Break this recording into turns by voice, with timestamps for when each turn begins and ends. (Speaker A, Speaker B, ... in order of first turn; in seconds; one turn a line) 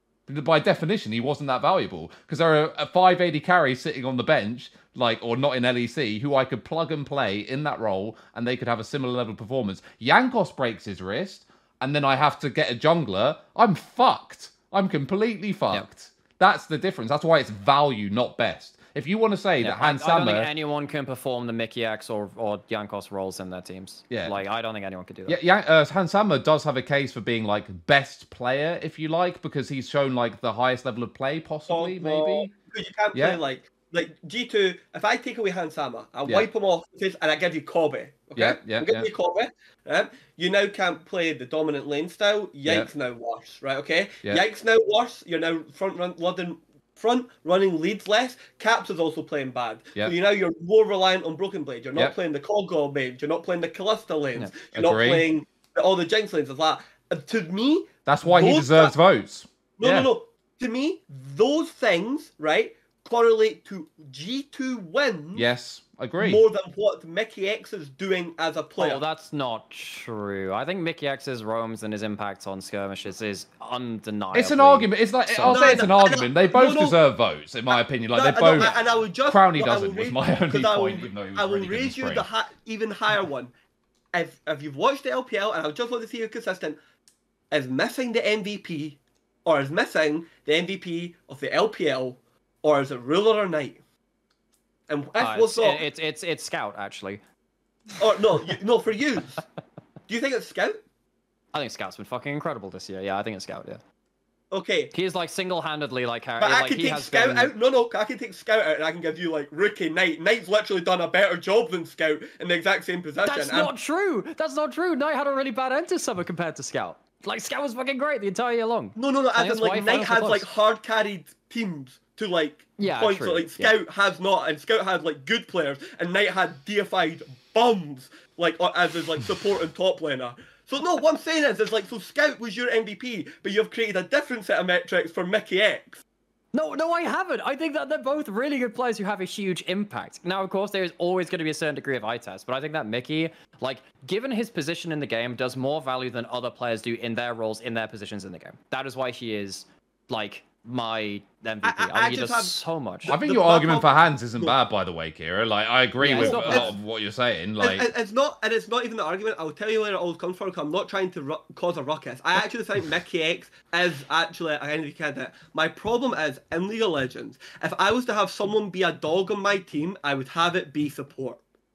Speaker A: 0.3-20.5
Speaker B: 19.6-25.4
Speaker A: 24.1-24.4
Speaker A: 25.3-32.5
Speaker C: 31.7-58.9
Speaker A: 33.1-33.4
Speaker A: 38.4-39.1
Speaker A: 42.6-42.9
Speaker A: 54.7-55.3
Speaker A: 58.0-60.1
Speaker C: 59.8-65.5
Speaker A: 65.3-66.4
Speaker C: 66.2-69.0
Speaker B: 68.8-75.9
Speaker A: 74.3-82.3
Speaker C: 75.4-77.0
Speaker C: 77.7-83.5
Speaker C: 84.1-86.8
Speaker C: 87.5-93.8
Speaker C: 94.9-95.8
Speaker B: 95.2-97.2
Speaker C: 98.0-99.4
Speaker C: 100.1-100.8
Speaker B: 101.5-103.8
Speaker C: 104.5-104.9
Speaker B: 104.9-107.5
Speaker C: 106.4-113.7
Speaker B: 113.2-120.5
Speaker C: 119.0-136.0
Speaker B: 122.8-123.7
Speaker B: 136.5-153.2
Speaker C: 151.6-154.5
Speaker A: 153.1-157.9
Speaker B: 156.0-156.7
Speaker C: 156.2-156.7
Speaker C: 157.6-171.4